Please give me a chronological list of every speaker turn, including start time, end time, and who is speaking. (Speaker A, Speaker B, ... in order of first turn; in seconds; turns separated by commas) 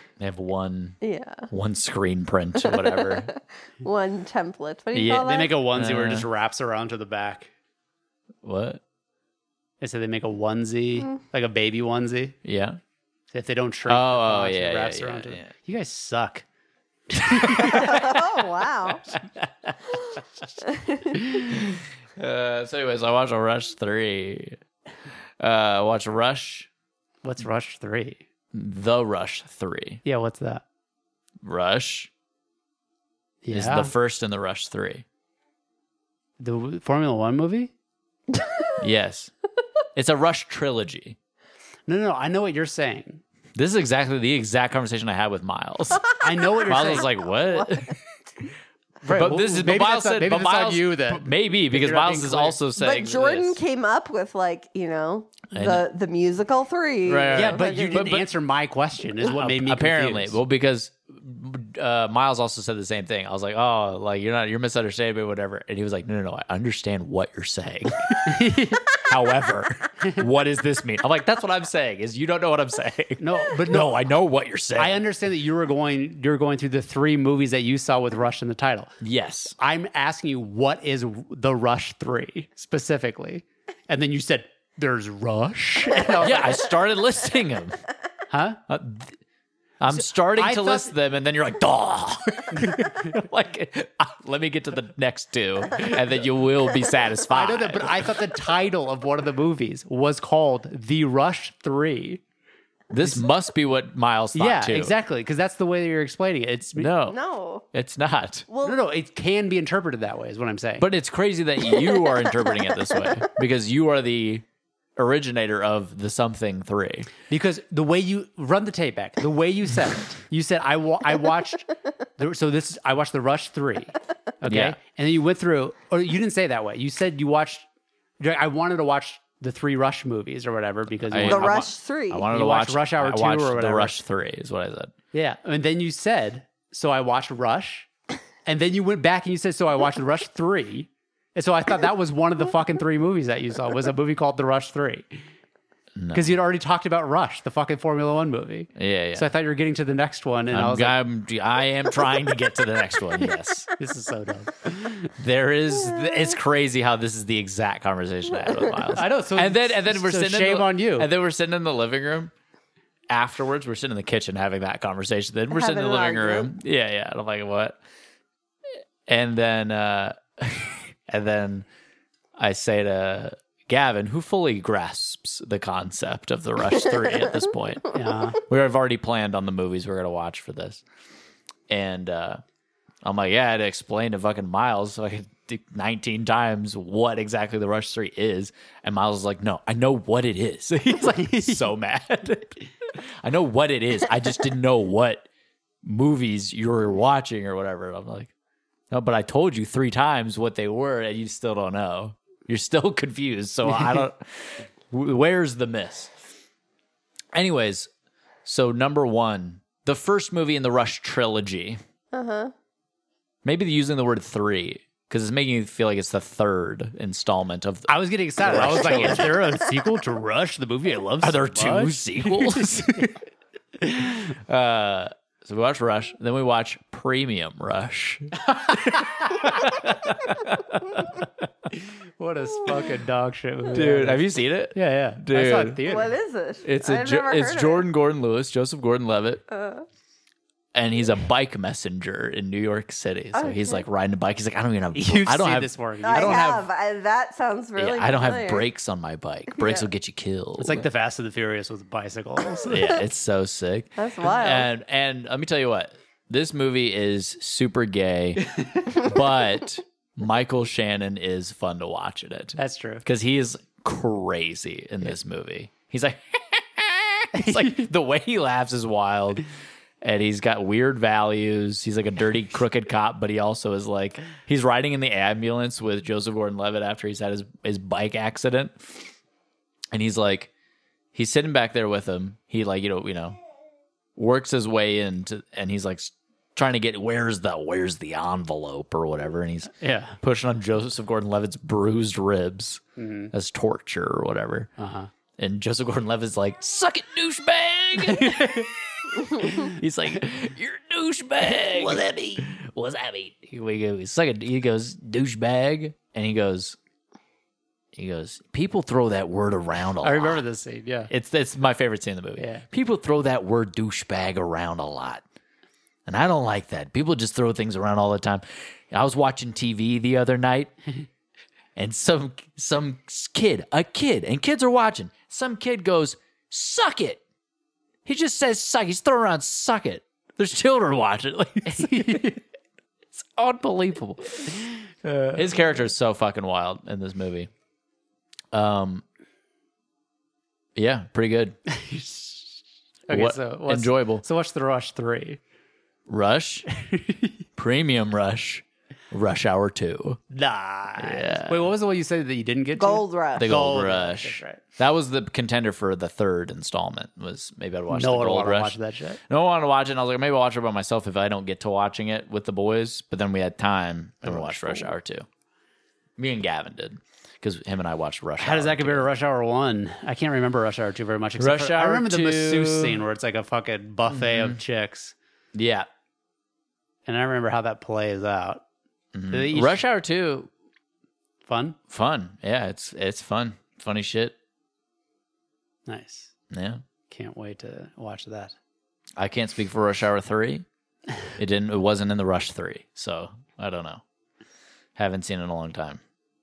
Speaker A: 0.2-3.3, Speaker B: 1.0-1.5, Speaker B: 2.6-5.5, Speaker A: 4.9-6.3, Speaker C: 5.2-7.5, Speaker A: 8.4-8.8, Speaker C: 9.8-12.4, Speaker A: 12.4-12.8, Speaker C: 13.3-16.4, Speaker A: 13.9-15.5, Speaker C: 17.1-18.2, Speaker A: 17.4-17.8, Speaker B: 17.6-19.0, Speaker B: 20.7-21.2, Speaker A: 21.5-24.6, Speaker A: 25.4-26.7, Speaker C: 27.2-28.2, Speaker A: 28.5-30.0, Speaker C: 30.0-30.6, Speaker A: 31.4-32.1, Speaker C: 33.4-33.9, Speaker A: 33.5-35.0, Speaker C: 36.4-37.7, Speaker A: 38.8-39.3, Speaker A: 39.9-41.2, Speaker C: 41.9-43.2, Speaker A: 43.5-46.1, Speaker C: 46.2-47.1, Speaker A: 46.6-48.0, Speaker B: 47.4-47.7, Speaker C: 49.0-52.6, Speaker A: 49.1-53.6, Speaker B: 52.8-58.1, Speaker A: 55.5-55.9, Speaker A: 57.0-58.3, Speaker C: 57.3-60.4, Speaker A: 59.2-75.0, Speaker C: 68.2-68.9, Speaker C: 73.2-73.9, Speaker C: 74.8-78.9, Speaker A: 79.0-79.5, Speaker C: 79.6-86.6, Speaker A: 86.1-87.8, Speaker C: 88.3-88.6, Speaker A: 88.7-89.2, Speaker A: 89.8-98.2, Speaker C: 89.9-90.9, Speaker C: 92.5-92.9, Speaker C: 97.3-102.2, Speaker A: 102.9-104.9, Speaker C: 104.3-106.9, Speaker A: 106.8-107.2, Speaker B: 107.1-107.6, Speaker A: 107.7-108.5, Speaker B: 108.5-108.8, Speaker C: 108.6-110.9, Speaker A: 110.8-114.4, Speaker B: 111.7-113.1, Speaker A: 115.0-117.1, Speaker C: 117.3-127.7, Speaker A: 124.4-124.8, Speaker C: 128.2-131.6, Speaker A: 131.1-134.9, Speaker B: 131.2-132.3, Speaker C: 132.3-134.0, Speaker C: 135.1-137.9, Speaker C: 138.4-145.2, Speaker A: 145.9-146.3, Speaker C: 146.1-151.0, Speaker A: 148.8-149.2, Speaker A: 150.5-153.7, Speaker C: 153.8-155.1, Speaker A: 155.1-162.3, Speaker B: 158.4-158.8, Speaker C: 158.9-161.1, Speaker A: 163.1-167.8, Speaker B: 165.5-166.5, Speaker A: 169.1-171.6, Speaker A: 172.4-180.8, Speaker C: 177.9-178.4, Speaker A: 181.7-182.4, Speaker A: 183.0-195.2, Speaker C: 190.9-191.7, Speaker A: 195.8-198.3, Speaker A: 198.9-206.1, Speaker A: 207.3-207.9, Speaker A: 208.4-211.8, Speaker B: 212.1-212.5, Speaker A: 213.4-219.6, Speaker C: 217.9-223.1, Speaker A: 221.2-223.1, Speaker A: 224.3-231.2, Speaker C: 228.5-229.5, Speaker C: 231.8-236.1, Speaker A: 233.7-235.8, Speaker B: 235.8-237.8, Speaker A: 236.6-239.4, Speaker B: 239.5-239.8, Speaker A: 240.7-246.6, Speaker B: 243.3-243.8, Speaker C: 244.9-246.6, Speaker B: 246.0-248.7, Speaker A: 247.8-250.8, Speaker B: 249.5-249.9, Speaker C: 250.6-253.0, Speaker A: 252.7-269.4, Speaker B: 254.0-254.7, Speaker C: 262.6-263.0, Speaker C: 267.4-267.8, Speaker A: 270.0-279.1, Speaker A: 279.9-280.5, Speaker A: 281.1-283.4, Speaker A: 284.1-294.7, Speaker C: 289.8-290.2, Speaker C: 293.0-293.3, Speaker C: 294.8-295.1, Speaker A: 295.4-306.8, Speaker C: 298.0-298.7, Speaker C: 301.5-301.9, Speaker A: 307.9-310.4, Speaker C: 310.0-311.1, Speaker A: 311.1-315.2, Speaker C: 312.4-312.6, Speaker A: 316.1-320.8, Speaker A: 321.8-327.2, Speaker A: 328.0-332.4, Speaker C: 331.7-332.4, Speaker A: 333.1-334.7, Speaker C: 335.0-335.4, Speaker A: 335.3-337.5, Speaker A: 338.5-339.0, Speaker A: 340.7-341.6, Speaker C: 341.7-345.4, Speaker A: 343.1-344.2, Speaker A: 346.1-346.7, Speaker C: 346.8-347.4, Speaker A: 347.6-350.2, Speaker C: 350.3-354.6, Speaker A: 351.0-351.6, Speaker B: 352.8-353.5, Speaker A: 353.3-358.8, Speaker C: 357.9-359.2, Speaker A: 359.3-365.2, Speaker C: 364.2-364.9, Speaker A: 366.2-369.0, Speaker C: 368.4-375.1, Speaker A: 371.4-373.0, Speaker A: 374.1-374.6, Speaker A: 375.5-375.9, Speaker C: 377.1-378.6, Speaker A: 379.1-380.5, Speaker C: 379.3-379.8, Speaker C: 381.4-381.8, Speaker A: 381.9-384.4, Speaker C: 385.9-386.3, Speaker A: 386.5-386.8, Speaker C: 387.1-388.6, Speaker A: 389.2-390.6, Speaker A: 391.4-394.0, Speaker A: 394.9-396.0